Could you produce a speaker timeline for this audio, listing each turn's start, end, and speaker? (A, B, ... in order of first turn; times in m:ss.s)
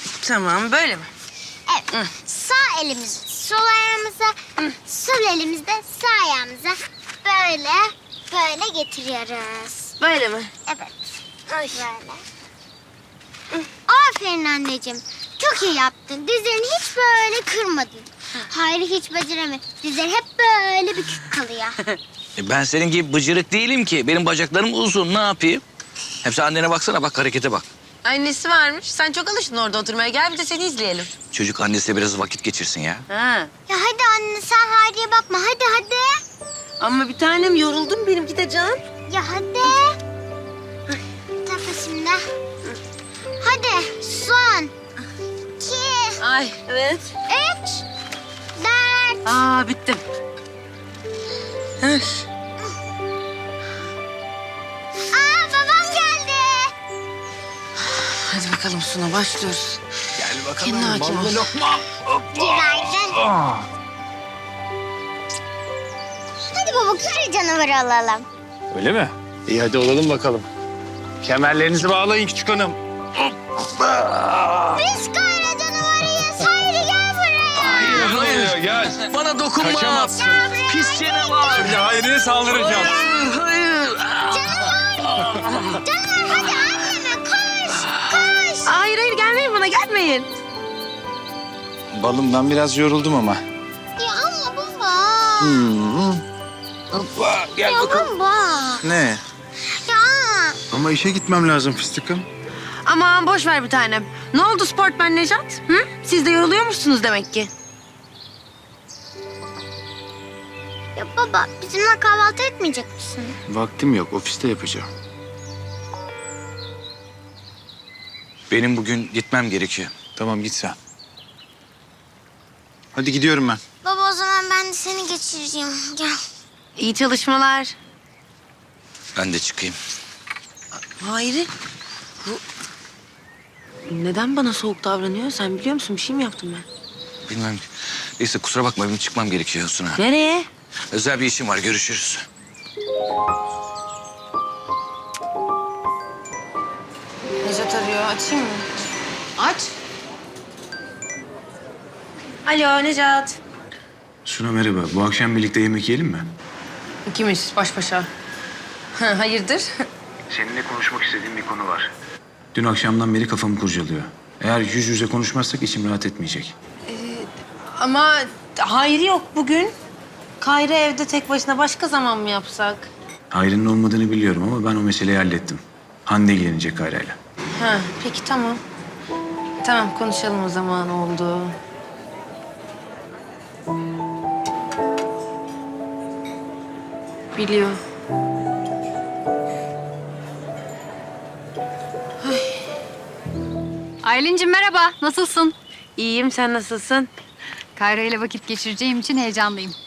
0:00.2-0:01.1 A
0:01.7-0:09.9 B
0:10.0-0:10.5 A
0:10.6-0:10.9 B
0:11.5-0:11.8 A
0:11.7-0:12.2 B
0:13.9-0:21.8 B
0:22.4-0:25.6 C
0:26.2-0:27.6 C
0:28.0-0:31.1 A
0:31.3-0:33.0 C
0:33.1-0:33.5 A
0:33.7-0:36.2 B
0:36.8-0:38.8 A
0:39.1-0:40.0 B
0:41.4-0:42.2 B
0:43.4-0:44.7 B
0:45.6-0:46.2 B
0:46.2-0:47.1 A
0:47.3-0:47.8 B
0:48.6-0:49.3 B
0:49.2-0:50.0 A
0:51.8-0:52.2 A
0:55.1-0:56.7 B
0:57.8-0:59.8 A
1:00.2-1:03.7 D
1:00.6-1:01.5 A
1:02.3-1:03.2 B
1:06.4-1:08.2 B
1:08.7-1:10.5 D
1:11.2-1:14.8 D
1:14.7-1:18.1 B
1:17.6-1:21.8 C
1:17.8-1:20.5 D
1:20.1-1:21.8 B
1:21.4-1:23.0 D
1:22.5-1:23.2 B
1:22.7-1:23.9 A
1:24.3-1:28.7 B
1:28.6-1:30.3 A
1:31.9-1:33.4 D
1:34.0-1:35.7 B
1:35.4-1:36.2 D
1:37.4-1:37.7 C
1:37.6-1:38.8 B
1:37.7-1:38.0 D
1:38.8-1:39.2 D
1:39.6-1:40.6 B
1:40.7-1:42.3 D
1:42.8-1:47.5 A
1:51.0-1:53.4 B
1:53.5-1:54.9 D
1:58.5-1:59.9 C
2:00.2-2:00.8 D
2:02.9-2:03.6 D
2:03.8-2:06.2 B
2:06.8-2:07.8 A
2:09.1-2:09.8 C
2:10.9-2:11.5 A
2:13.9-2:16.6 A
2:17.3-2:20.0 C
2:19.9-2:20.5 A
2:20.9-2:22.3 C
2:27.4-2:28.7 A
2:29.4-2:29.7 A
2:32.4-2:33.4 A
2:34.2-2:36.3 D
2:37.1-2:38.1 A
2:39.0-2:39.9 A
2:40.3-2:41.9 D
2:42.5-2:46.5 D
2:46.8-2:49.8 A
2:50.4-2:52.9 A
2:53.3-2:57.2 D
2:57.6-2:58.6 A
2:59.6-3:01.6 A
3:07.3-3:07.8 A
3:12.2-3:12.6 A
3:14.0-3:15.5 E
3:16.0-3:17.1 A
3:17.8-3:19.8 E